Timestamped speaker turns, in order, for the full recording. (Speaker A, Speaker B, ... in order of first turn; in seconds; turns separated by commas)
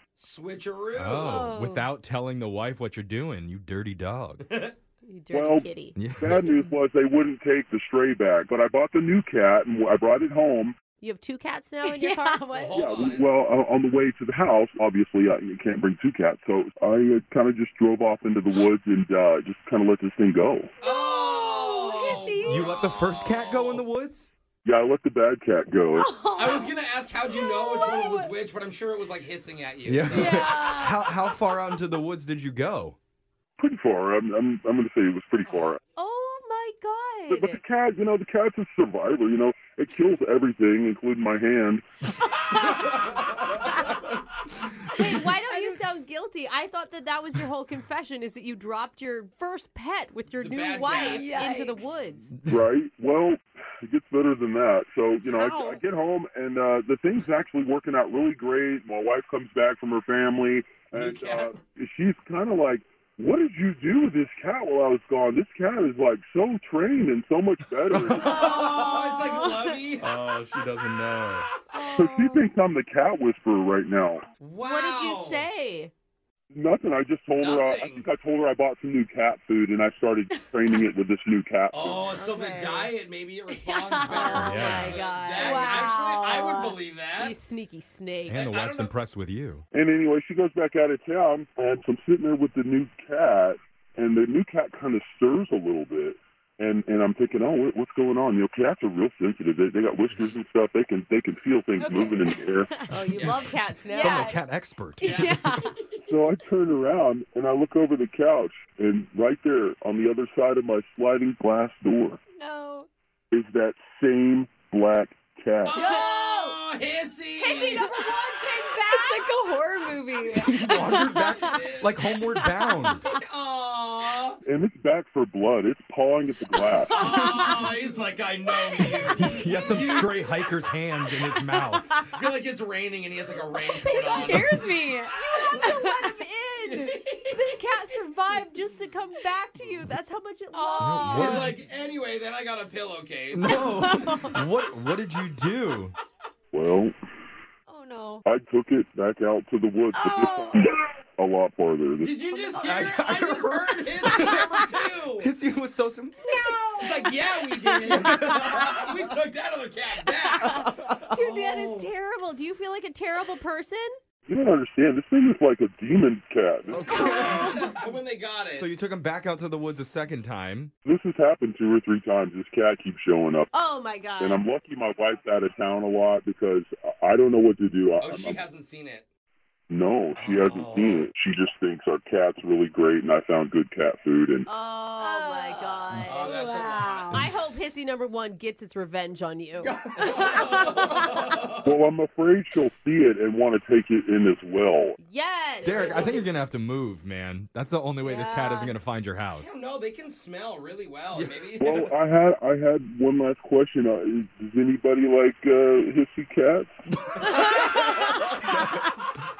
Speaker A: 0.2-1.4, Speaker B: 0.9-4.5, Speaker C: 1.2-1.8, Speaker A: 4.5-4.7, Speaker D: 5.0-6.0, Speaker E: 5.3-10.7, Speaker B: 6.0-6.4, Speaker D: 11.0-12.8, Speaker C: 11.8-12.7, Speaker A: 12.5-13.3, Speaker E: 12.7-20.7, Speaker A: 20.8-23.8, Speaker C: 20.8-22.9, Speaker B: 22.4-24.3, Speaker E: 24.6-26.7, Speaker C: 25.9-26.7, Speaker A: 26.3-30.5, Speaker C: 27.2-28.3, Speaker B: 29.8-33.0, Speaker C: 30.1-30.9, Speaker E: 33.6-35.8, Speaker A: 35.4-35.7, Speaker D: 36.0-37.6, Speaker E: 37.3-41.9, Speaker C: 42.6-42.9, Speaker D: 45.0-52.3, Speaker C: 45.0-45.8, Speaker A: 50.4-51.3, Speaker C: 51.0-51.8, Speaker E: 52.5-68.7, Speaker C: 55.3-55.8, Speaker A: 61.0-61.5, Speaker B: 67.9-68.9, Speaker A: 68.2-70.1, Speaker B: 70.0-71.5, Speaker C: 71.7-72.5, Speaker E: 71.9-74.2, Speaker A: 74.4-75.5, Speaker D: 74.6-75.9, Speaker E: 76.5-82.1, Speaker A: 77.3-78.0, Speaker C: 80.3-80.9, Speaker A: 81.7-87.4, Speaker D: 82.1-82.9, Speaker C: 83.5-84.5, Speaker D: 84.0-88.4, Speaker B: 84.4-85.0, Speaker C: 85.4-86.1, Speaker B: 88.2-89.7, Speaker A: 88.3-88.9, Speaker E: 89.7-102.7, Speaker A: 100.1-100.4, Speaker C: 101.8-103.1, Speaker D: 102.9-104.3, Speaker A: 103.1-103.5, Speaker B: 103.2-105.6, Speaker C: 103.8-104.4, Speaker C: 105.0-105.8, Speaker A: 105.0-105.8, Speaker E: 106.0-112.2, Speaker C: 112.3-112.9, Speaker E: 113.3-115.9, Speaker A: 115.6-118.2, Speaker D: 115.7-116.5, Speaker C: 117.4-123.1, Speaker B: 120.3-123.0, Speaker A: 121.0-122.0, Speaker A: 123.1-124.4, Speaker E: 124.4-127.2, Speaker C: 126.6-127.7, Speaker A: 126.9-130.1, Speaker C: 128.7-129.4, Speaker B: 129.1-131.9, Speaker C: 131.3-132.1, Speaker A: 132.1-134.7, Speaker C: 133.8-136.2, Speaker D: 135.2-141.4, Speaker A: 136.6-137.4, Speaker C: 140.5-141.4, Speaker B: 140.8-141.6, Speaker A: 141.1-144.2, Speaker B: 143.3-145.9, Speaker C: 143.8-144.4, Speaker E: 146.5-146.9, Speaker C: 147.7-148.2, Speaker E: 148.2-152.2, Speaker C: 149.9-150.8, Speaker A: 152.0-155.3, Speaker B: 152.5-156.3, Speaker C: 156.2-158.5, Speaker A: 156.8-161.9, Speaker B: 157.9-158.7, Speaker B: 160.5-161.1, Speaker D: 161.1-163.9, Speaker E: 164.3-167.5, Speaker B: 166.7-167.6, Speaker A: 166.7-168.7, Speaker B: 168.5-170.7, Speaker E: 170.8-173.5, Speaker D: 173.5-174.4, Speaker E: 174.2-178.4, Speaker A: 178.0-179.1, Speaker E: 179.7-184.5, Speaker A: 180.2-181.1, Speaker D: 184.5-186.3, Speaker C: 185.0-187.2, Speaker A: 185.9-187.3, Speaker D: 187.1-189.7, Speaker A: 189.6-191.8, Speaker E: 191.6-194.9, Speaker D: 195.0-196.2, Speaker B: 195.6-199.5, Speaker C: 198.0-198.7, Speaker A: 199.4-201.8, Speaker B: 201.1-201.9, Speaker E: 201.6-206.7, Speaker B: 207.1-208.3, Speaker C: 207.3-207.8